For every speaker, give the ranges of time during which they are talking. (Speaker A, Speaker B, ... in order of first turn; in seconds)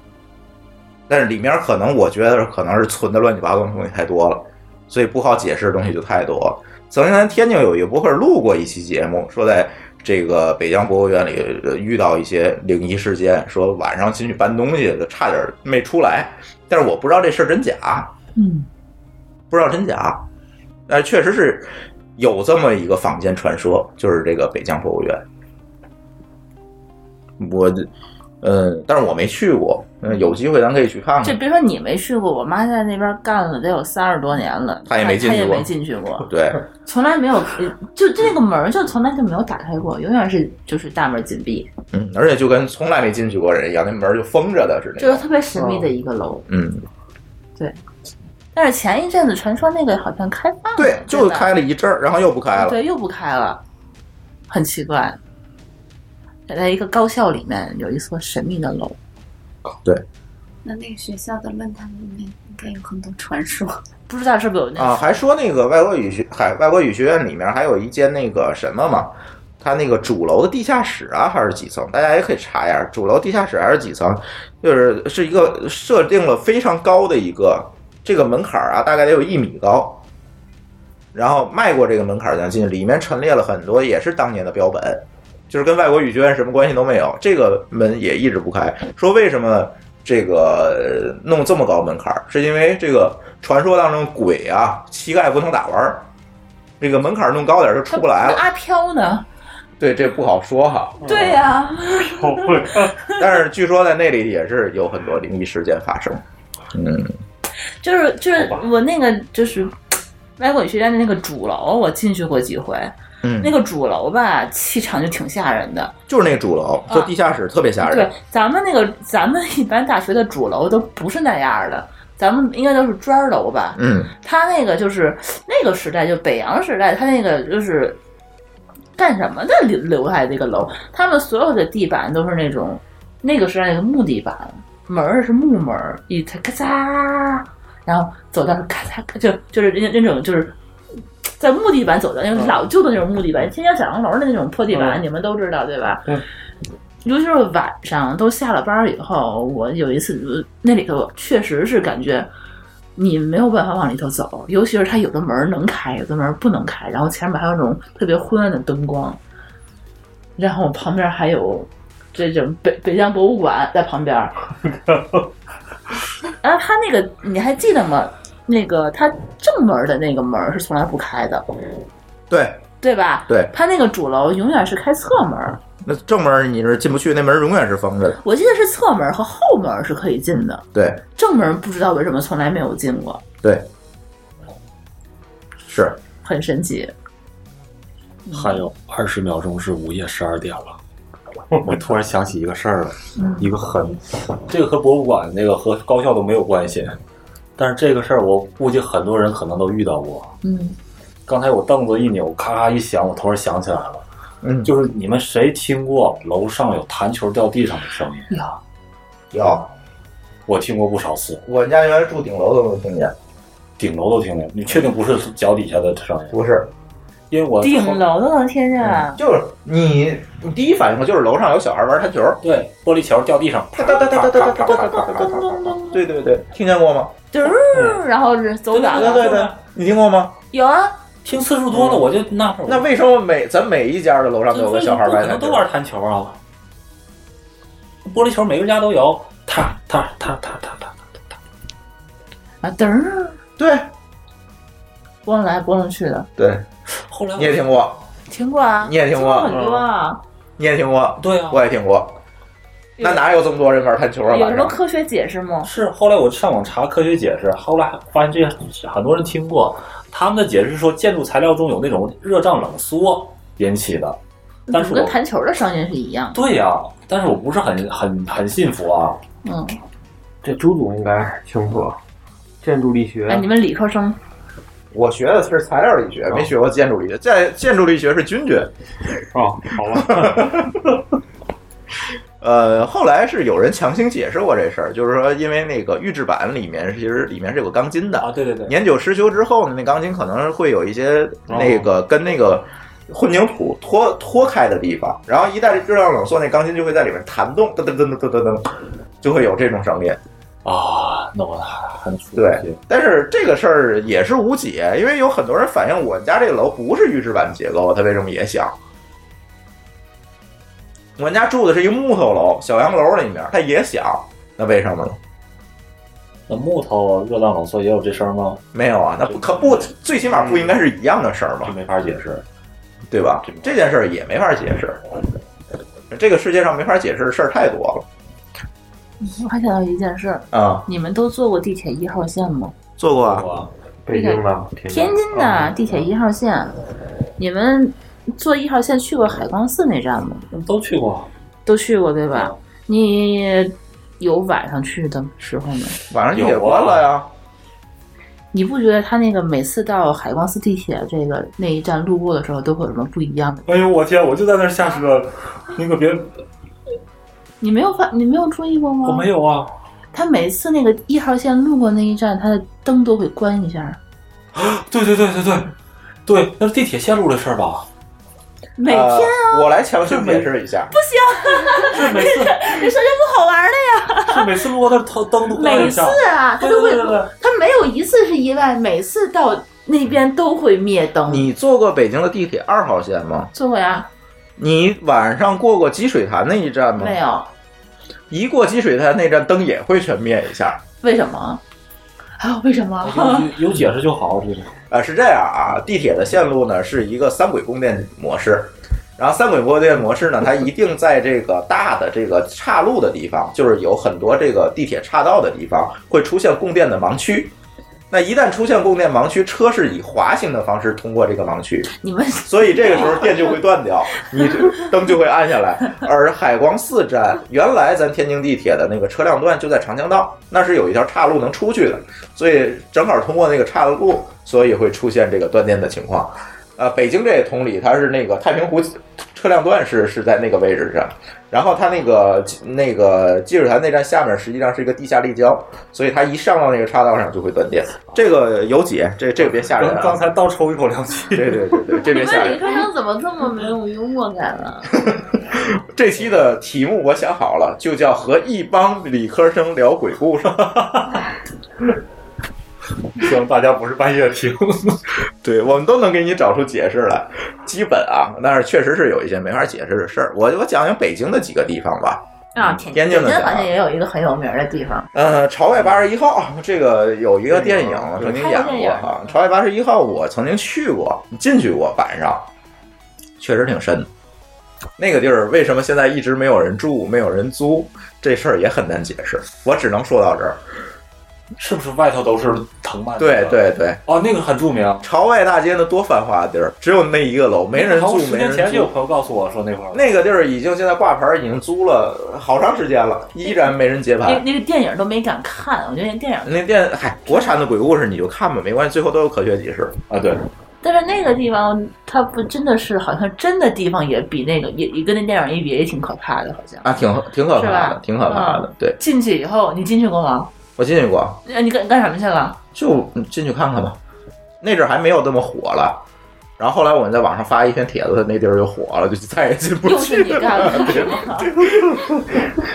Speaker A: 1.1-18.1, 19.5-20.2, 20.9-25.2, 27.4-27.9, 28.4-31.4, 34.9-35.7, 36.2-36.6, 41.9-45.2, 46.5-46.9, 50.8-52.8, 64.8-80.0, 81.1-96.1, 96.8-98.4, 99.8-101.0, 103.2-106.2, 106.7-107.2, 113.2-113.5, 116.1-118.1, 123.8-124.1, 172.3-172.6, 175.8-178.2, 180.7-181.0, 185.6-186.0, 204.4-204.7, 209.3-209.7, 211.4-213.1, 216.3-216.7, 219.1-222.4, 223.7-227.2, 228.9-230.4, 232.7-235.7, 243.6-243.9, 246.4-246.7, 247.3-248.0, 248.8-249.5, 250.6-252.2, 253.0-254.8, 274.9-278.7, 279.9-280.7, 282.4-298.7, 299.2-300.2, 302.4-308.7, 311.2-315.2, 318.7-321.7, 323.1-325.0, 326.1-328.1, 330.5-330.9, 333.0-333.5, 346.1-347.3, 368.8-370.9, 381.2-383.5, 384.6-387.2, 388.3-390.8, 394.9-407.5, 408.1-411.9, 412.4-440.2, 441.3-442.8, 444.9-450.8, 455.4-463.7, 465.1-472.5, 473.4-474.1, 475.0-480.6, 483.2-484.0, 485.0-488.9, 489.9-494.4, 496.4-500.0, 506.8-509.0, 510.8-511.4, 512.7-514.0, 514.6-516.0, 516.6-522.5
Speaker B: 18.4-18.7, 31.2-36.3, 36.8-41.7, 45.0-46.5, 48.5-51.5, 52.5-53.6, 54.5-55.2, 56.5-59.0, 64.1-65.2, 97.9-99.2, 101.0-103.2, 107.8-115.9, 117.8-128.0, 129.0-140.5, 141.4-146.1, 147.0-152.3, 152.9-159.2, 160.4-164.3, 166.4-171.5, 172.8-175.6, 178.2-180.6, 181.2-183.2, 186.2-186.9, 188.3-188.6, 193.2-193.4, 200.4-200.8, 208.3-208.6, 217.6-219.2, 224.5-226.0, 227.3-229.3, 230.5-230.9, 242.6-243.4, 245.2-246.3, 248.3-250.2, 253.0-253.2, 254.3-255.7, 264.7-266.4, 269.4-269.8, 273.3-274.2, 329.2-332.7, 334.1-336.7, 337.4-340.4, 341.6-346.0, 348.5-353.6, 357.6-359.3, 360.1-364.0, 368.8-374.4, 375.5-381.5, 383.5-384.1, 387.0-387.5, 391.0-391.6, 392.4-393.5, 411.9-413.5, 442.0-444.9, 462.5-465.1, 468.2-469.4, 494.2-496.6, 500.8-507.0, 507.5-510.5, 511.4-512.6, 519.8-521.5
Speaker C: 45.6-45.9, 101.0-101.4, 102.0-102.9, 144.7-145.0, 227.7-228.0, 249.5-249.9, 270.4-272.0, 272.6-273.5, 279.3-280.6, 334.1-335.8, 467.6-468.1
Speaker D: 60.6-63.8
Speaker E: 188.3-190.8, 191.6-197.0, 197.6-200.3, 201.3-204.0, 204.6-208.3, 210.5-211.4, 213.8-216.4, 217.3-218.0, 222.4-225.7, 228.7-229.5, 231.2-232.9, 234.7-236.4, 238.1-241.3, 247.1-247.6, 251.2-251.6, 255.6-264.2, 264.7-265.2, 266.3-269.2, 288.2-288.7, 291.6-291.8, 300.6-302.8, 316.5-318.6, 319.2-320.8, 321.6-322.4, 323.4-323.7, 333.2-333.7, 340.5-341.3, 346.3-347.1, 353.6-356.3, 359.0-359.7, 364.5-365.7, 366.2-367.9, 371.7-372.9, 374.2-377.3, 393.0-394.7, 439.4-441.8, 450.6-451.2, 453.1-455.0, 481.6-485.1, 487.7-490.1, 500.1-500.4